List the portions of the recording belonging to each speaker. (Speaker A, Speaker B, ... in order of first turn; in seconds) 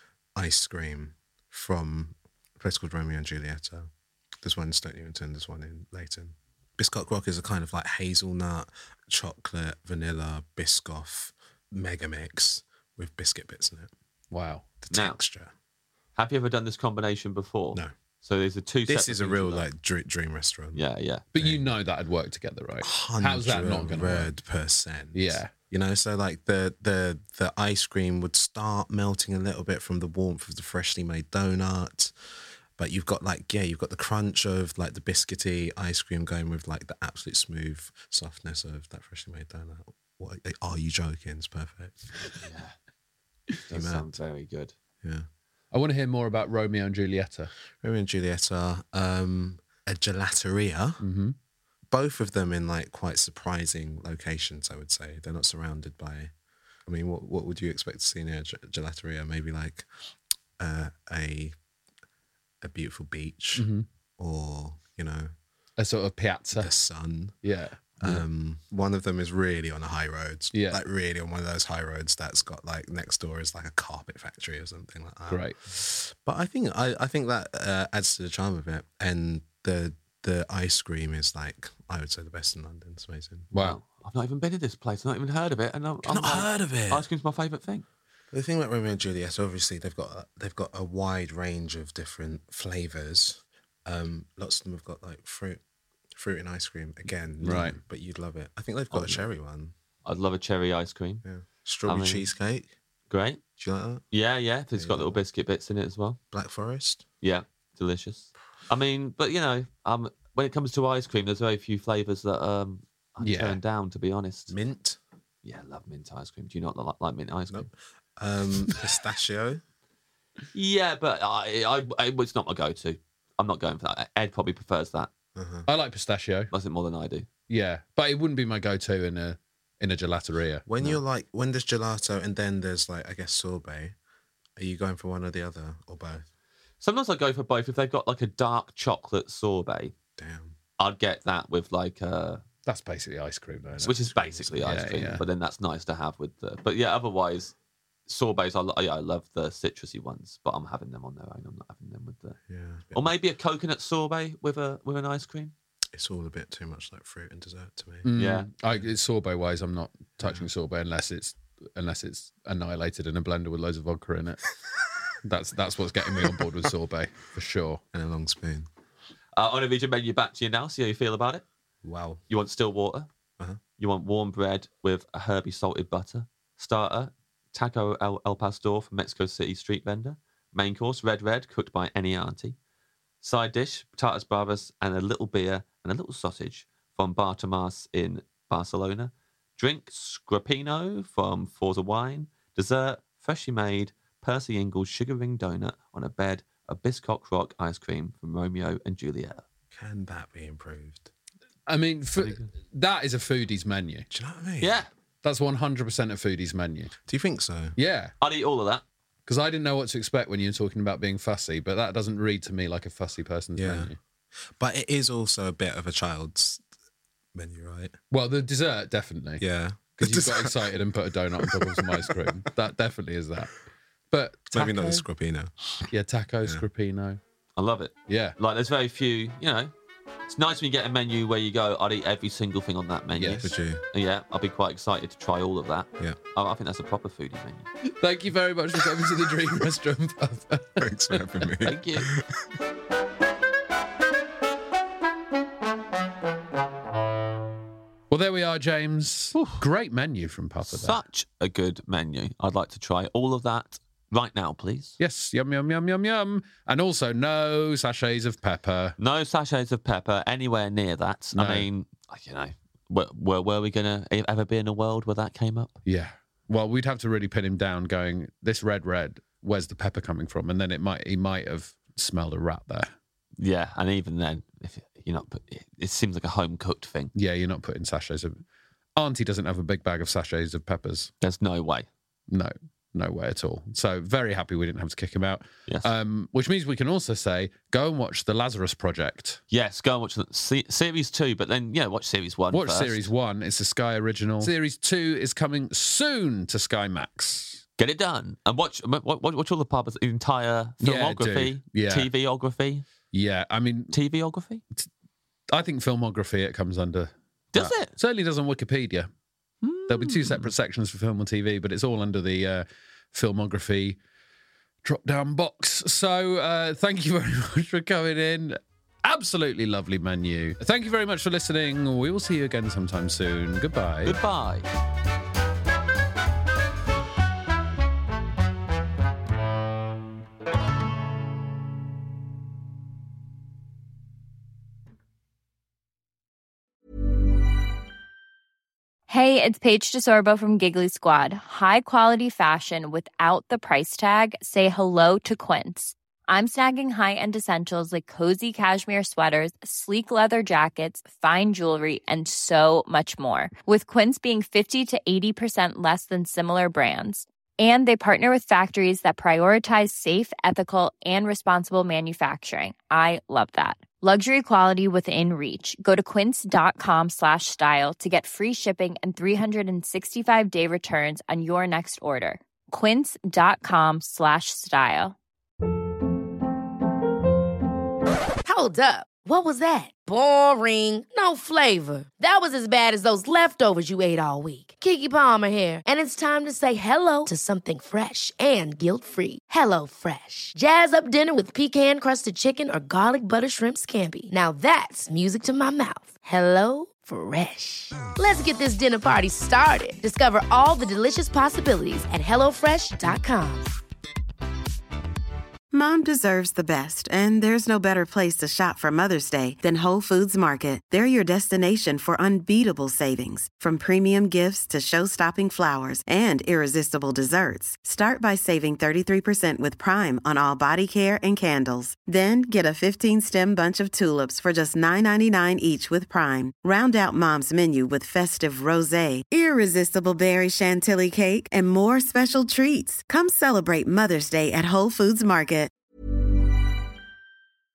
Speaker A: 0.3-3.9, 4.4-13.9, 14.8-15.5, 18.9-20.8, 21.3-21.6, 22.8-32.1, 32.8-42.1, 43.7-44.1, 47.8-51.0, 51.9-56.3, 56.8-59.9, 60.6-61.5, 62.6-65.3, 66.5-67.3, 68.0-83.5, 86.0-87.0, 88.3-95.6, 96.1-99.7, 101.2-102.7, 103.6-104.0, 104.7-105.2, 106.3-107.0, 114.5-115.0, 117.5-119.6, 125.3-125.7, 130.7-133.9, 134.6-136.2, 140.2-140.6, 143.8-144.5, 152.5-153.1, 155.9-158.1, 160.2-160.5, 167.9-168.7, 171.8-172.2, 199.7-201.1, 204.1-204.8, 207.1-207.8, 213.6-213.9, 214.6-216.6, 217.3-217.9, 219.4-220.7, 221.4-222.5, 224.5-225.5, 233.3-233.8, 240.8-242.5
Speaker B: 14.3-14.6, 21.3-24.3, 25.1-25.5, 45.7-47.5, 51.0-51.3, 63.5-63.8, 65.8-66.7, 67.4-68.2, 70.5-70.8, 75.3-75.6, 83.5-83.8, 97.4-97.8, 113.2-113.6, 125.7-126.5, 127.5-130.9, 142.6-145.2, 158.0-164.4, 165.2-167.8, 201.7-204.1, 205.2-206.9, 207.7-208.1, 209.2-213.9, 218.1-219.4, 220.0-223.5, 224.1-225.0, 225.9-227.2, 228.1-228.3, 233.2-233.5, 237.8-240.9, 248.1-251.0, 255.0-258.9, 261.3-261.7, 265.8-272.9, 277.1-278.4, 278.9-281.1, 282.3-289.4, 292.5-297.6, 300.8-302.1, 303.1-303.9, 305.5-309.1, 309.9-314.0, 314.8-324.2
Speaker C: 14.9-15.2, 16.1-19.7, 20.7-21.2, 42.4-42.7, 43.7-44.7, 83.5-87.8, 98.9-99.2, 100.0-101.2, 101.9-102.3, 103.1-103.4, 104.1-106.2, 107.2-114.5, 115.4-117.7, 120.5-125.1, 126.5-127.2, 136.8-139.9, 140.8-142.4, 143.8-147.5, 148.1-152.4, 152.9-155.5, 158.2-158.5, 169.3-171.4, 172.3-173.1, 173.8-182.6, 183.2-199.4, 202.2-202.5, 204.6-204.9, 208.2-208.8, 227.6-229.7, 230.3-237.7, 241.6-242.1, 249.3-249.6, 250.6-255.0, 259.0-265.8, 273.4-277.1, 281.2-281.9, 289.5-293.1, 297.8-302.9, 303.9-304.6, 307.5-307.9, 309.6-310.5, 324.0-324.7
Speaker D: 339.1-375.1
Speaker E: 378.4-403.7
Speaker F: 405.7-435.7